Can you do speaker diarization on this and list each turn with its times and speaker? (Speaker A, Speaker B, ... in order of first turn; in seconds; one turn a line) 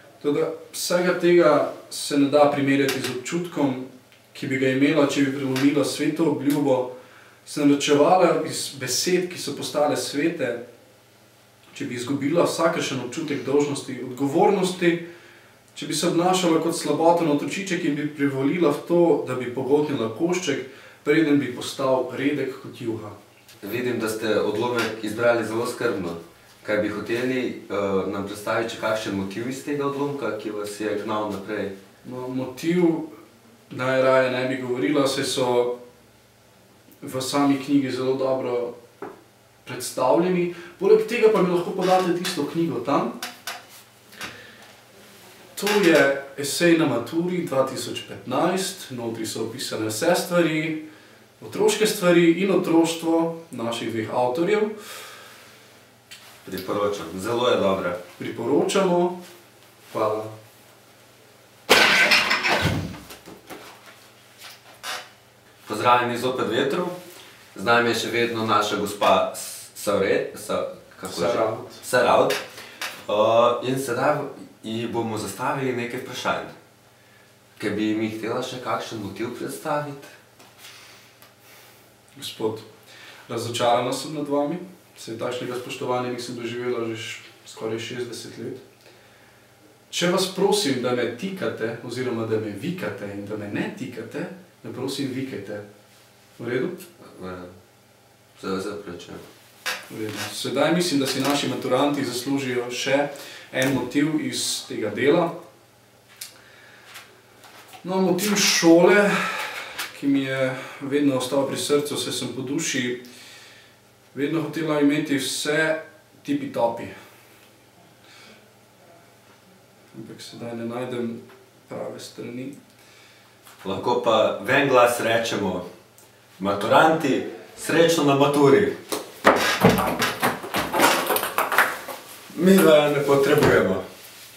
Speaker A: 0.2-6.9
Speaker A: 7.4-10.6
Speaker A: 11.7-15.0
Speaker A: 15.7-23.1
Speaker B: 23.6-31.7
Speaker A: 32.0-33.1
Speaker A: 33.7-35.7
Speaker A: 37.0-38.7
Speaker A: 39.6-43.2
Speaker A: 45.5-50.8
Speaker A: 51.4-54.8
Speaker B: 56.4-58.0
Speaker A: 58.2-59.2
Speaker A: 59.9-60.3
Speaker B: 65.7-67.0
Speaker B: 67.5-72.4
Speaker A: 71.1-71.8
Speaker B: 73.1-76.5
Speaker B: 77.6-80.1
Speaker A: 82.2-82.7
Speaker A: 83.3-88.6
Speaker A: 89.9-95.6
Speaker A: 96.4-96.8
Speaker B: 97.0-97.5
Speaker B: 98.4-99.2
Speaker A: 99.9-105.3
Speaker A: 107.8-113.0
Speaker A: 114.1-116.9
Speaker A: 119.9-122.5
Speaker B: 123.6-125.6
Speaker B: 126.4-128.7
Speaker B: 132.3-133.8